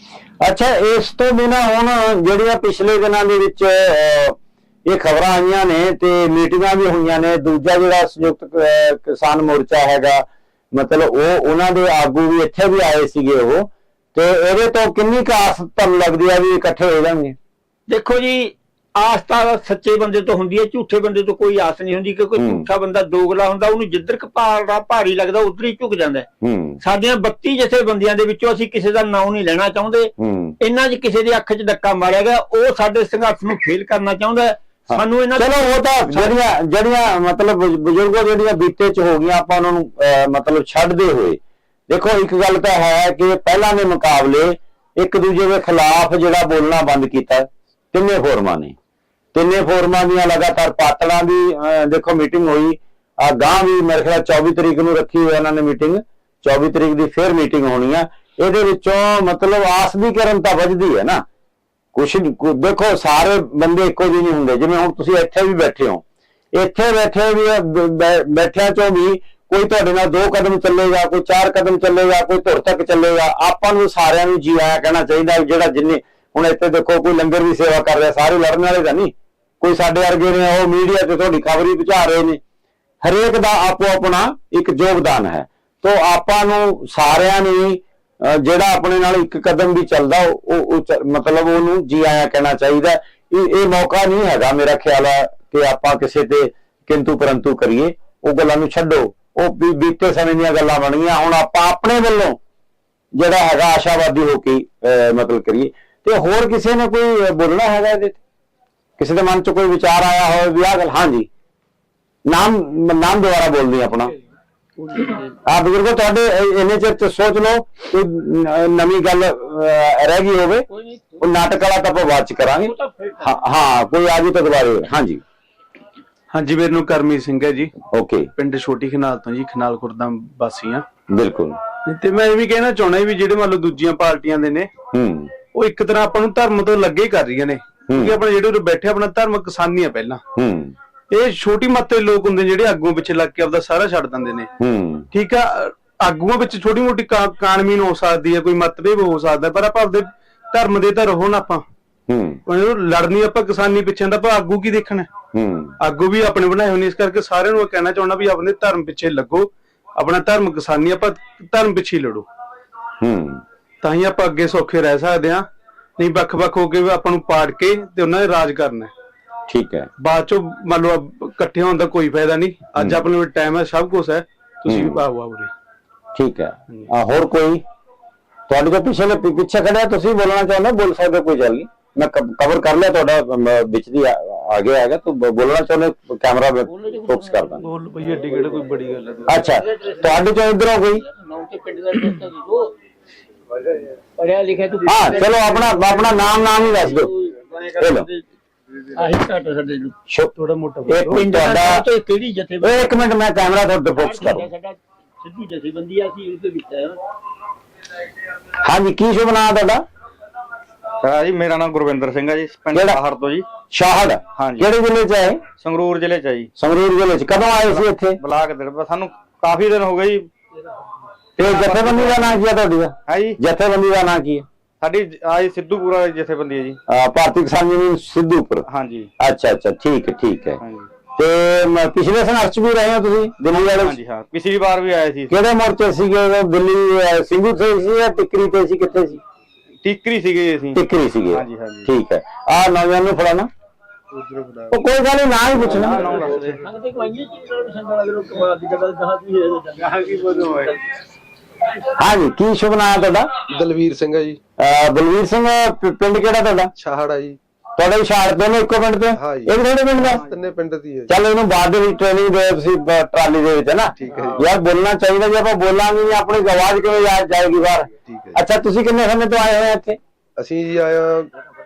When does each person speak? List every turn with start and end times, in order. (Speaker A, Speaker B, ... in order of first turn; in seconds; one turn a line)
Speaker A: 0.4-17.4
Speaker B: 17.9-26.3
Speaker A: 22.4-22.6
Speaker A: 26.4-26.8
Speaker B: 26.8-36.4
Speaker A: 30.2-30.6
Speaker A: 34.9-48.8
Speaker A: 49.3-61.2
Speaker A: 61.9-82.4
Speaker A: 83.0-102.4
Speaker A: 103.1-108.2
Speaker A: 109.0-111.3
Speaker A: 112.2-114.1
Speaker B: 114.8-115.4
Speaker A: 115.5-120.7
Speaker B: 120.7-121.3
Speaker A: 121.2-125.2
Speaker B: 122.6-123.3
Speaker C: 126.3-127.7
Speaker A: 127.9-128.3
Speaker C: 128.4-130.8
Speaker A: 131.1-131.6
Speaker C: 131.8-134.7
Speaker A: 134.9-135.3
Speaker C: 135.5-140.2
Speaker A: 137.9-138.2
Speaker A: 140.3-140.7
Speaker C: 141.1-144.5
Speaker A: 144.6-145.1
Speaker C: 145.1-151.6
Speaker A: 152.1-152.4
Speaker C: 152.5-155.1
Speaker A: 155.3-155.8
Speaker C: 155.8-162.2
Speaker A: 163.0-163.4
Speaker C: 163.8-165.5
Speaker C: 166.0-168.9
Speaker A: 169.5-169.9
Speaker C: 170.0-175.5
Speaker A: 172.8-173.0
Speaker A: 174.7-175.0
Speaker A: 176.1-177.6
Speaker A: 178.5-187.6
Speaker B: 186.7-187.5
Speaker C: 187.6-189.3
Speaker A: 189.3-191.0
Speaker B: 189.4-190.1
Speaker B: 191.1-192.7
Speaker B: 194.2-198.2
Speaker A: 194.8-197.1
Speaker A: 197.8-198.1
Speaker B: 198.9-199.9
Speaker A: 200.8-201.8
Speaker B: 201.1-203.0
Speaker A: 202.6-204.5
Speaker B: 204.0-207.0
Speaker A: 208.6-209.8
Speaker D: 211.0-213.4
Speaker A: 212.7-213.0
Speaker A: 213.7-215.4
Speaker D: 214.3-214.7
Speaker D: 215.6-216.5
Speaker A: 216.6-218.2
Speaker D: 217.6-220.3
Speaker A: 221.4-224.4
Speaker D: 221.4-222.2
Speaker D: 223.1-223.4
Speaker D: 224.8-226.8
Speaker A: 226.9-228.7
Speaker D: 228.7-229.1
Speaker A: 229.2-230.6
Speaker D: 230.6-230.9
Speaker A: 231.2-234.0
Speaker D: 233.8-235.3
Speaker A: 235.3-239.2
Speaker D: 239.8-240.8
Speaker A: 240.7-243.5
Speaker D: 241.3-241.9
Speaker E: 244.2-244.7
Speaker A: 244.7-246.1
Speaker D: 245.7-246.6
Speaker B: 245.8-250.6
Speaker A: 251.9-253.3
Speaker E: 253.5-254.4
Speaker A: 254.6-256.7
Speaker E: 256.8-257.4
Speaker A: 257.8-260.2
Speaker E: 259.2-261.1
Speaker A: 261.1-270.0
Speaker E: 264.0-264.5
Speaker E: 268.1-268.4
Speaker E: 270.4-271.3